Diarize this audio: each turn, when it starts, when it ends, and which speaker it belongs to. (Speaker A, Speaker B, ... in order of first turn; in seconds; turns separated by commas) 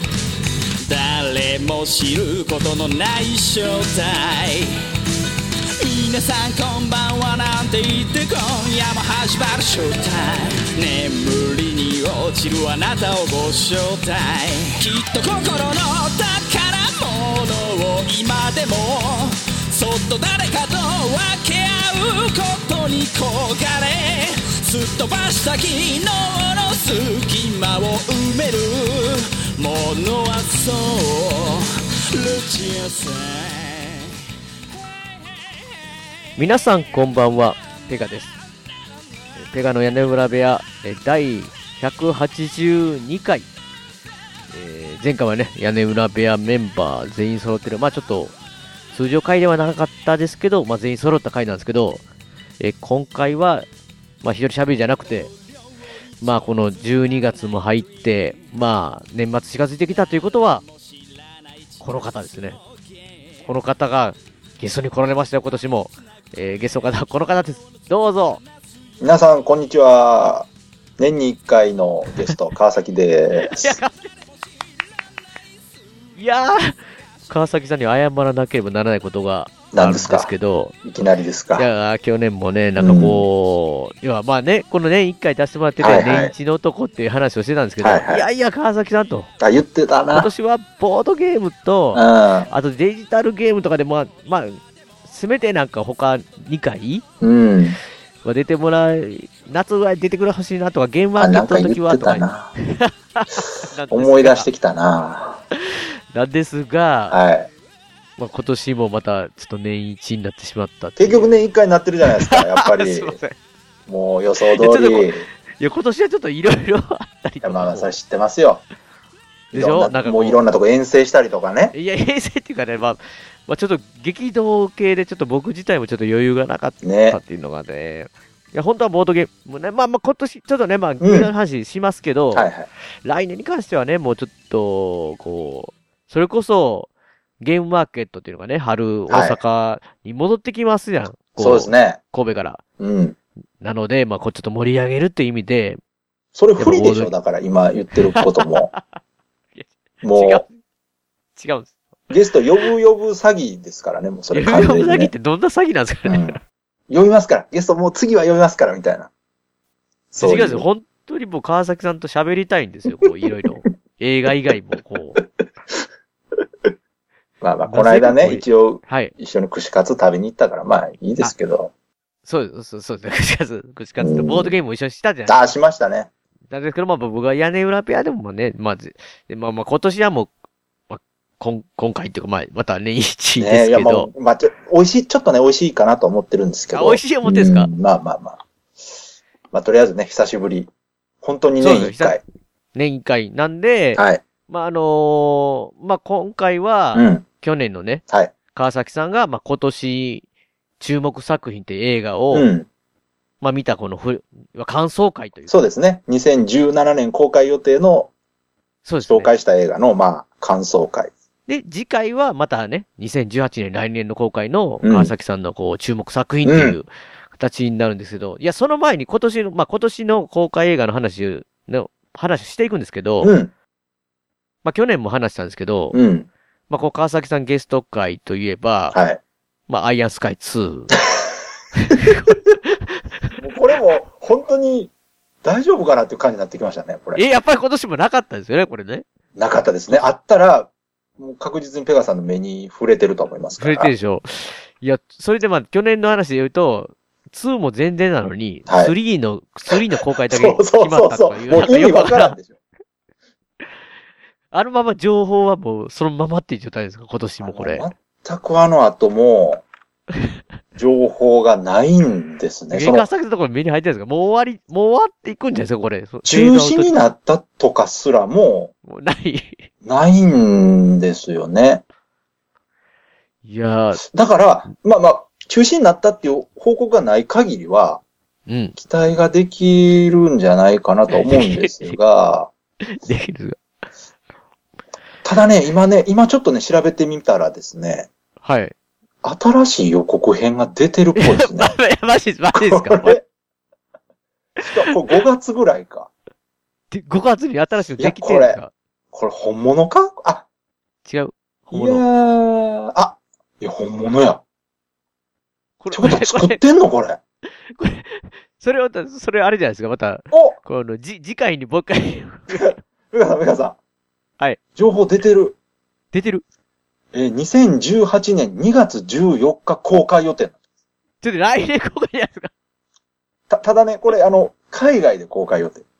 Speaker A: 0.8-4.8, Speaker A: 5.8-34.1, Speaker B: 36.4-38.4, Speaker B: 39.4-43.5, Speaker B: 44.5-48.3, Speaker B: 48.9-52.0, Speaker B: 52.6-53.7, Speaker B: 54.2-55.3, Speaker B: 56.2-60.6, Speaker A: 60.9-61.8, Speaker B: 61.8-62.6, Speaker B: 63.4-68.4, Speaker C: 69.0-73.8, Speaker B: 73.4-74.1, Speaker B: 76.2-80.7, Speaker C: 79.7-80.3, Speaker C: 80.8-81.7, Speaker B: 81.5-89.3, Speaker C: 82.8-83.2, Speaker C: 85.8-86.3, Speaker C: 87.8-88.2, Speaker C: 89.4-90.3, Speaker B: 90.1-97.0, Speaker C: 91.9-92.5, Speaker C: 97.2-97.8, Speaker B: 98.2-104.5, Speaker C: 101.2-102.5, Speaker C: 103.9-105.4, Speaker B: 105.5-107.2, Speaker C: 107.1-107.5, Speaker B: 108.2-111.3, Speaker C: 111.0-113.2, Speaker B: 112.2-113.3, Speaker C: 113.9-115.3, Speaker B: 114.6-117.9, Speaker C: 117.4-118.6, Speaker B: 119.5-120.4, Speaker C: 119.5-121.7, Speaker B: 121.7-132.5, Speaker C: 126.8-127.2, Speaker C: 131.0-131.3, Speaker C: 132.3-132.7, Speaker B: 133.0-136.9, Speaker B: 137.4-142.6, Speaker C: 139.1-139.4, Speaker C: 141.4-142.0, Speaker C: 142.8-143.2, Speaker B: 143.6-145.8, Speaker C: 146.3-148.7, Speaker B: 146.6-147.1, Speaker B: 148.1-149.0, Speaker B: 149.5-150.5, Speaker C: 150.0-150.4, Speaker B: 151.3-151.7, Speaker C: 152.1-155.1, Speaker B: 154.3-156.4, Speaker C: 156.1-159.1, Speaker C: 160.1-160.6, Speaker B: 160.2-165.2, Speaker C: 167.4-171.7, Speaker B: 167.6-169.1, Speaker B: 172.2-175.4, Speaker C: 174.0-174.5, Speaker C: 175.2-176.1, Speaker B: 176.5-180.3, Speaker B: 180.9-184.1, Speaker C: 183.4-188.4, Speaker B: 186.7-187.7, Speaker C: 189.5-190.7, Speaker C: 191.2-192.2, Speaker B: 191.6-192.2, Speaker B: 192.7-198.0, Speaker C: 193.9-194.2, Speaker C: 196.9-197.2, Speaker B: 198.5-200.2, Speaker B: 200.8-202.5, Speaker C: 202.3-202.7, Speaker B: 203.4-205.6, Speaker C: 205.5-208.1, Speaker B: 208.8-209.3, Speaker C: 209.0-211.1, Speaker B: 211.5-223.3, Speaker C: 214.8-215.1, Speaker C: 216.4-216.8, Speaker C: 223.2-223.5, Speaker B: 224.6-226.0, Speaker C: 225.9-226.3, Speaker B: 226.7-229.0, Speaker C: 228.9-229.2, Speaker B: 229.7-230.9, Speaker B: 231.8-232.7, Speaker C: 233.4-234.9, Speaker C: 235.4-237.4, Speaker B: 237.1-239.0, Speaker C: 239.3-243.9, Speaker B: 243.6-252.3, Speaker C: 248.7-248.9, Speaker C: 250.3-252.6, Speaker B: 254.5-257.9, Speaker C: 257.4-259.6, Speaker C: 260.7-263.1, Speaker B: 262.7-267.0, Speaker C: 266.2-268.7, Speaker B: 268.9-269.6, Speaker C: 269.8-271.8, Speaker B: 273.4-274.0, Speaker C: 274.0-278.0, Speaker B: 278.5-278.8, Speaker C: 278.8-282.5, Speaker B: 281.1-282.0, Speaker B: 282.8-283.6, Speaker C: 285.2-288.1, Speaker B: 288.4-288.7, Speaker C: 289.2-291.8, Speaker B: 291.1-293.2, Speaker C: 292.5-293.2, Speaker C: 294.6-296.1, Speaker B: 296.9-298.7, Speaker C: 298.0-298.6, Speaker C: 299.1-300.4, Speaker B: 301.1-302.0, Speaker C: 301.7-304.4, Speaker B: 305.8-306.6, Speaker C: 305.9-307.2, Speaker B: 307.4-312.8, Speaker C: 310.3-310.6, Speaker C: 312.5-313.8, Speaker C: 314.7-315.5, Speaker B: 316.1-316.4, Speaker C: 317.1-320.6, Speaker B: 321.2-322.5, Speaker C: 323.5-325.8